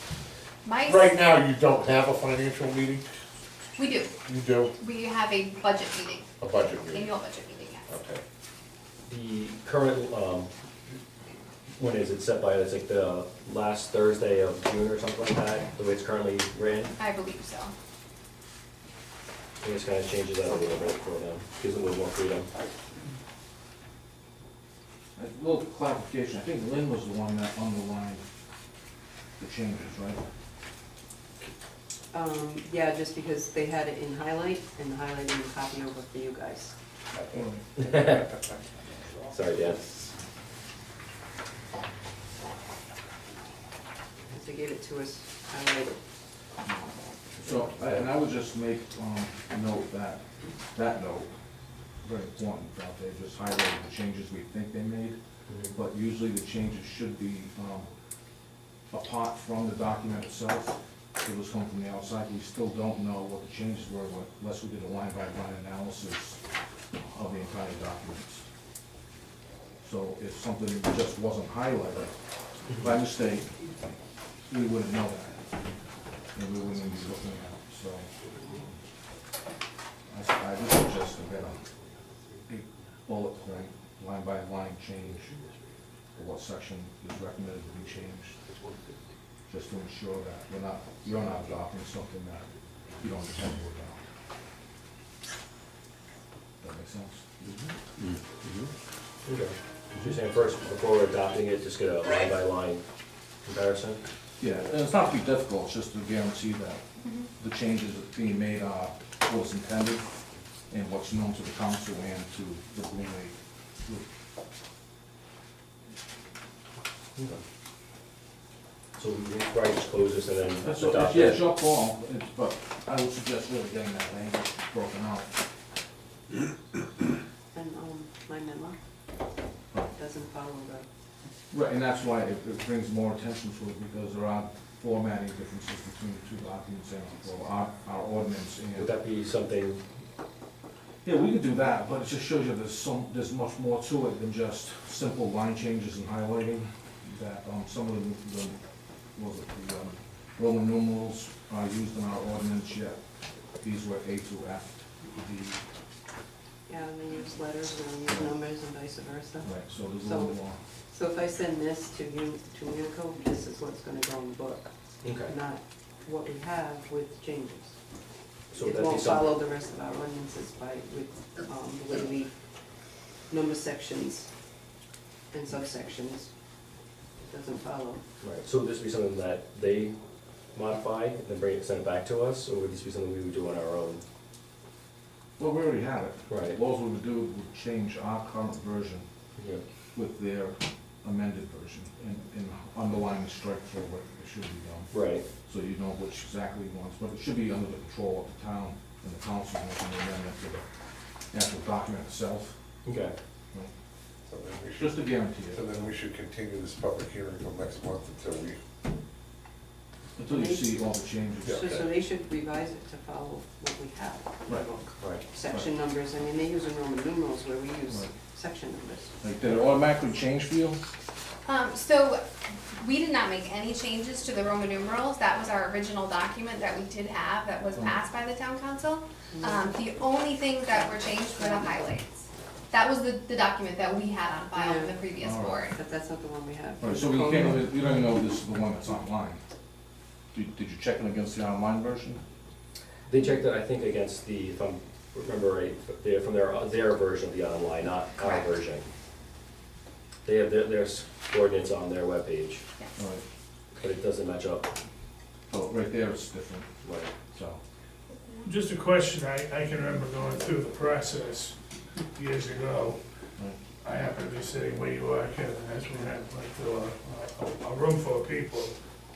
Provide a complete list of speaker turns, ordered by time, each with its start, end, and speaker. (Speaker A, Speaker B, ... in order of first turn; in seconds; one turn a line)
Speaker A: 0.7-1.2
Speaker B: 0.9-3.1
Speaker A: 3.8-4.2
Speaker B: 4.2-4.8
Speaker A: 4.8-7.9
Speaker B: 6.4-7.2
Speaker B: 7.9-8.2
Speaker C: 9.1-10.5
Speaker C: 11.8-16.9
Speaker A: 17.0-17.7
Speaker C: 19.6-22.5
Speaker D: 25.2-28.2
Speaker D: 29.4-30.2
Speaker E: 32.1-36.8
Speaker D: 37.3-37.6
Speaker C: 37.8-38.3
Speaker C: 39.3-39.9
Speaker E: 44.3-46.0
Speaker D: 47.4-50.2
Speaker D: 50.7-51.3
Speaker D: 52.0-55.2
Speaker C: 55.5-55.8
Speaker D: 55.7-57.9
Speaker D: 58.9-66.4
Speaker D: 67.1-68.5
Speaker D: 69.8-72.2
Speaker D: 72.7-73.7
Speaker D: 74.5-75.5
Speaker D: 76.3-78.1
Speaker D: 80.1-81.6
Speaker D: 82.5-85.3
Speaker D: 86.2-88.4
Speaker D: 89.5-92.5
Speaker D: 93.0-94.0
Speaker D: 96.6-97.3
Speaker C: 97.4-98.7
Speaker C: 99.2-102.8
Speaker C: 103.4-104.0
Speaker D: 104.4-106.8
Speaker A: 107.0-107.3
Speaker D: 107.4-110.0
Speaker D: 110.7-114.0
Speaker C: 117.2-117.4
Speaker C: 119.0-121.5
Speaker D: 120.6-125.3
Speaker E: 127.5-128.8
Speaker E: 129.9-130.9
Speaker D: 131.5-138.9
Speaker C: 138.8-139.8
Speaker D: 141.0-148.6
Speaker D: 149.2-153.0
Speaker D: 153.6-155.6
Speaker E: 156.7-160.4
Speaker D: 159.4-160.6
Speaker E: 160.9-164.7
Speaker C: 165.0-165.3
Speaker E: 165.2-167.8
Speaker C: 168.5-169.4
Speaker E: 168.6-172.3
Speaker E: 173.3-174.3
Speaker E: 175.3-176.3
Speaker E: 177.2-178.0
Speaker C: 178.2-180.0
Speaker C: 180.5-184.0
Speaker D: 185.4-189.1
Speaker C: 186.3-186.6
Speaker C: 189.4-189.6
Speaker D: 189.9-194.9
Speaker C: 194.9-195.3
Speaker D: 195.5-200.6
Speaker D: 201.3-202.6
Speaker C: 202.8-203.2
Speaker B: 204.3-208.6
Speaker D: 204.8-205.8
Speaker D: 210.2-211.8
Speaker E: 210.3-219.2
Speaker B: 211.4-211.8
Speaker C: 215.0-215.2
Speaker D: 219.2-220.8
Speaker A: 221.4-235.8
Speaker E: 229.3-229.8
Speaker E: 230.7-231.9
Speaker E: 234.5-235.1
Speaker D: 235.2-235.7
Speaker E: 235.7-237.8
Speaker D: 236.8-239.4
Speaker D: 240.3-242.2
Speaker C: 243.1-248.9
Speaker A: 248.2-248.5
Speaker C: 250.2-252.6
Speaker D: 253.0-253.2
Speaker C: 253.8-254.7
Speaker D: 255.5-256.7
Speaker C: 256.8-257.1
Speaker D: 257.3-257.6
Speaker A: 258.1-258.5
Speaker F: 258.4-261.6
Speaker F: 262.1-263.0
Speaker F: 263.8-268.7